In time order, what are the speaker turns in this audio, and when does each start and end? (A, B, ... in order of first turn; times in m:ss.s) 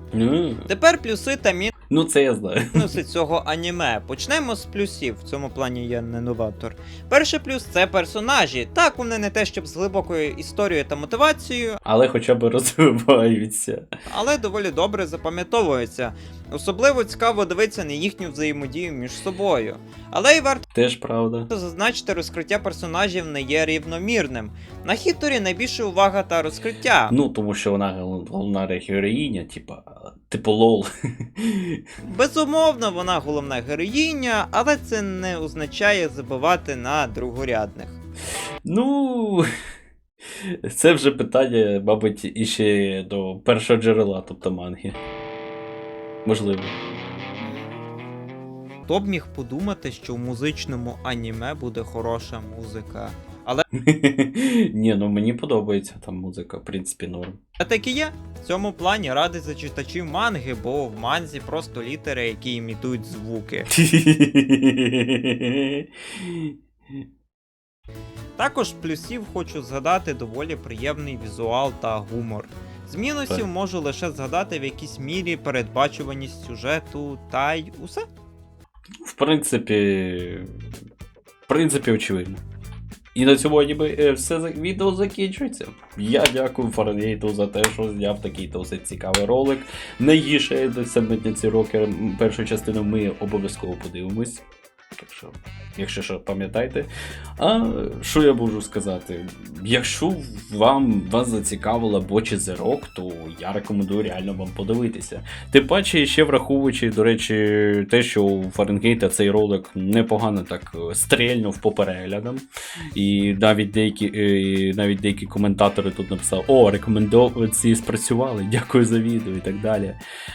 0:00.1-0:00.7 A
0:00.7-0:01.8 B
0:01.9-0:02.8 A
0:02.7-0:11.8 B
0:11.8-0:13.9 A
0:14.1-0:20.6 B
0:20.7-0:21.5 A
0:21.5-0:27.1 B
0:27.1-0:31.8 A
0:32.0-0:38.0 B
0:38.6-0:39.5 A
0:40.4-0:45.0 A
0:46.2-0:46.8 A
0:48.9-0:53.7 B
0:53.8-0:57.4 A
0:57.6-1:03.7 B
1:03.7-1:06.6 A
1:08.4-1:18.1 B
1:19.0-1:20.5 A
1:21.5-1:22.4 A
1:23.1-1:34.4 A
1:35.0-1:52.4 A
1:53.0-2:00.0 A